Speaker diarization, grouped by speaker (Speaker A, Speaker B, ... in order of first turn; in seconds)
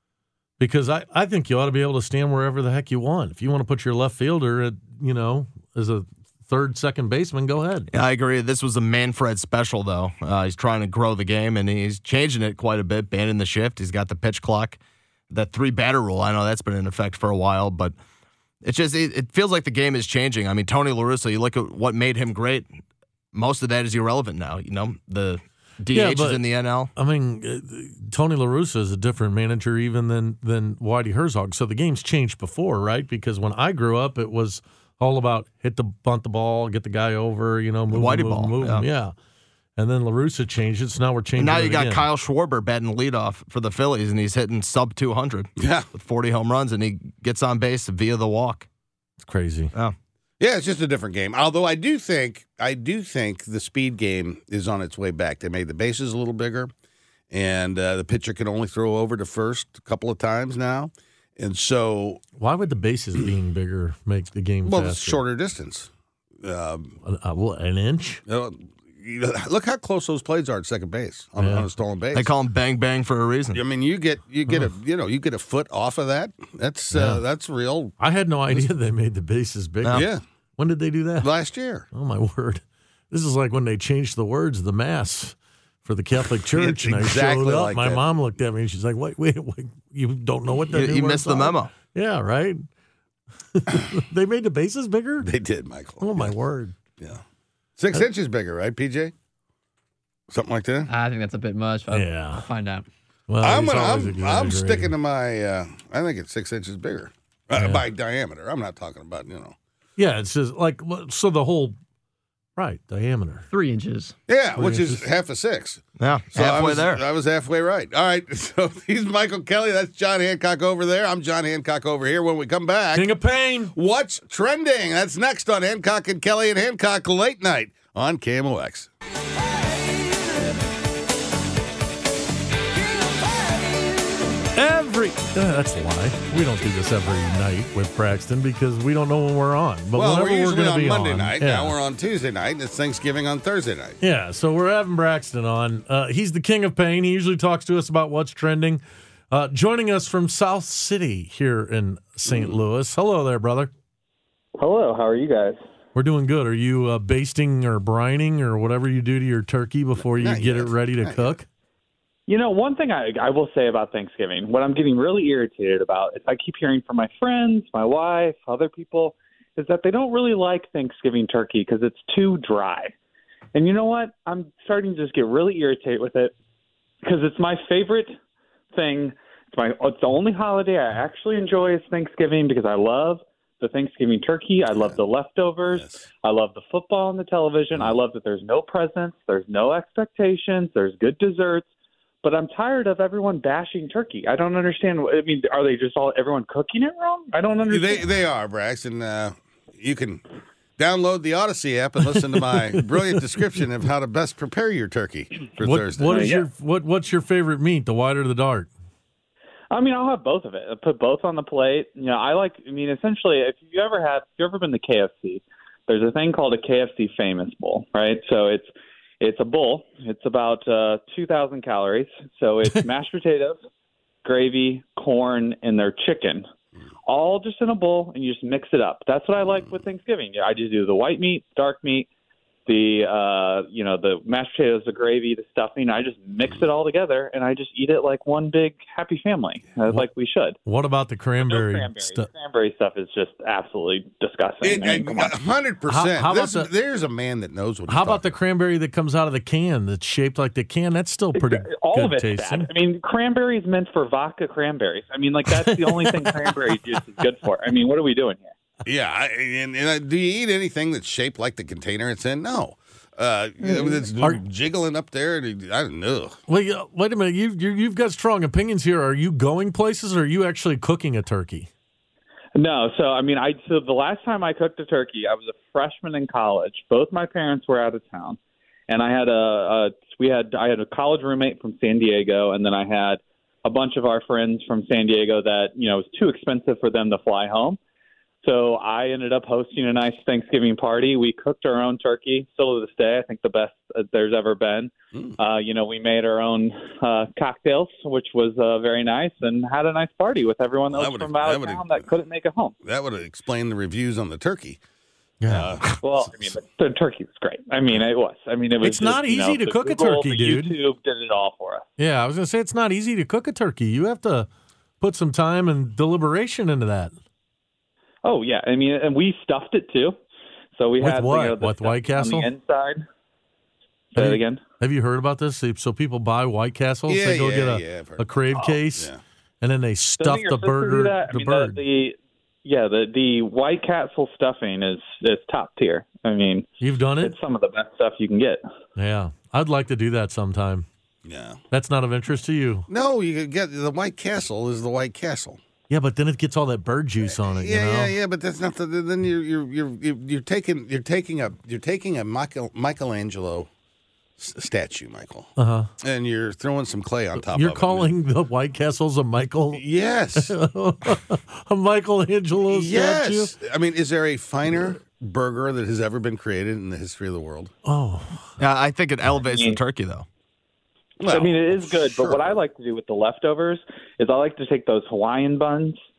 Speaker A: 0.6-7.9, 25.9-26.4, 26.9-39.1, 39.8-42.0, 49.2-49.7, 62.4-65.2, 67.0-68.2, 71.4-71.7, 76.9-77.2, 78.0-80.1, 80.6-81.3, 81.9-92.6, 93.5-95.3, 96.0-96.8, 101.9-102.5, 103.3-104.9, 107.5-107.8, 110.0-111.8, 112.6-113.5, 114.6-115.0, 122.9-123.7, 134.5-141.8, 144.0-153.7, 155.9-161.5, 202.2-203.2, 205.6-208.7, 240.7-242.3, 245.9-246.7, 247.9-252.7, 255.5-256.8, 266.5-271.7, 305.4-305.7, 308.8-310.7, 312.0-314.5, 315.0-317.1, 321.0-322.5, 324.2-329.1, 329.6-331.8, 336.8-337.3, 339.0-340.9, 341.7-342.9, 345.9-348.1, 355.6-355.9, 357.4-359.8, 360.4-363.5, 367.9-368.6
Speaker B: 7.9-14.8, 15.3-17.9, 18.6-22.7, 23.3-26.9, 37.9-38.9, 41.4-48.7, 72.1-73.6, 90.7-91.7, 116.0-117.0, 368.6-370.3
Speaker C: 45.6-45.9, 50.4-56.7, 57.3-62.2, 64.7-65.9, 66.4-67.0, 68.3-72.3, 73.5-78.0, 79.9-80.2, 81.2-81.9, 86.5-88.0, 95.2-96.3, 97.8-99.1, 100.3-100.9, 103.4-109.5, 114.3-123.1, 123.7-128.9, 139.9-144.0, 152.3-152.5, 160.0-161.4, 185.7-186.0, 197.7-200.2, 200.8-206.2, 244.6-248.3, 258.9-266.4, 300.9-302.0, 302.8-304.8, 305.5-306.0, 327.1-329.2, 341.2-341.6, 342.9-345.6, 347.3-353.7, 354.4-358.1, 359.7-360.5, 362.7-367.7, 371.2-372.6
Speaker D: 100.9-102.9, 113.5-114.2
Speaker E: 154.6-155.6, 162.3-172.9, 173.6-176.3, 177.0-178.1, 178.7-191.7, 192.2-198.1, 206.1-206.4, 209.7-223.6, 224.2-226.5, 227.1-232.1, 232.7-240.6, 241.5-245.3, 251.3-258.5, 272.6-278.4, 278.9-287.8, 288.4-302.8, 306.0-311.9, 318.2-320.2, 320.8-323.1, 324.1-324.6, 330.2-336.7, 337.2-338.6, 369.4-369.8, 371.3-376.0